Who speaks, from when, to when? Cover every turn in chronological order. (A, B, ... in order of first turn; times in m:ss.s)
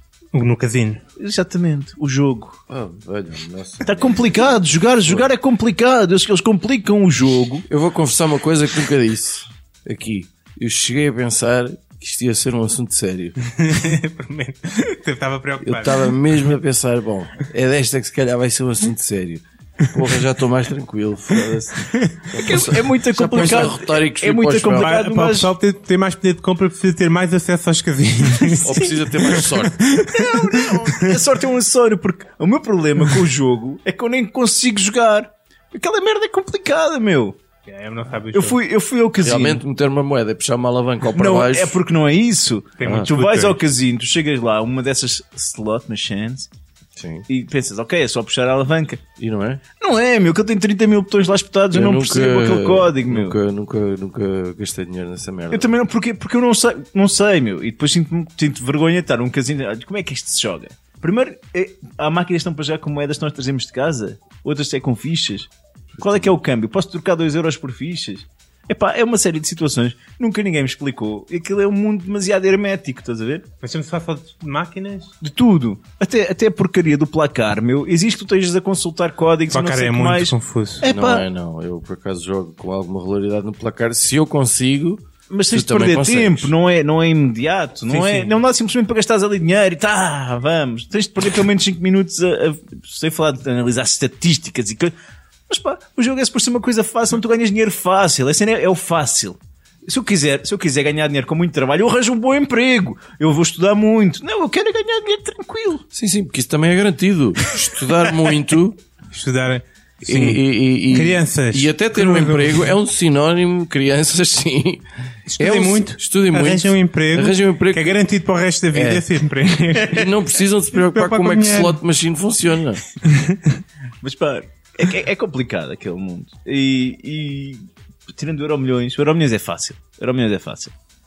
0:00.3-0:01.0 A
0:01.2-0:02.6 B
0:02.7-0:05.3 C
0:03.8-0:07.7 B
0:07.7-0:13.4 C
0:13.4-0:16.2 A
0:15.6-0:24.9 C
0:21.9-0:22.2 A
0:22.4-0:25.5 B
0:24.8-0:31.2 A
0:28.6-0:29.9 C
0:30.1-0:37.4 B
0:37.7-0:38.6 A
0:38.3-0:39.6 B
0:39.2-0:41.8 C
0:41.1-0:46.5 B
0:42.8-0:43.6 A
0:42.8-0:43.1 C
0:47.0-0:47.3 C
0:47.3-0:49.0 B
0:49.2-0:49.6 C
0:49.8-0:53.4 B
0:51.7-0:55.7 C
0:55.5-1:13.4 B
1:05.9-1:06.3 C
1:13.6-1:15.1 A
1:15.2-1:21.3 B
1:19.5-1:20.9 A
1:20.8-1:26.5 C
1:25.3-1:34.9 B
1:27.9-1:28.4 A
1:35.5-1:45.8 B
1:45.9-1:48.8 C
1:49.1-1:52.6 A
1:50.0-1:54.8 C
1:55.3-2:00.1 A
1:55.4-1:58.0 C
1:58.7-1:59.1 C
1:59.8-2:02.8 C
2:00.9-2:01.8 A
2:03.1-2:03.4 A
2:04.0-2:10.7 B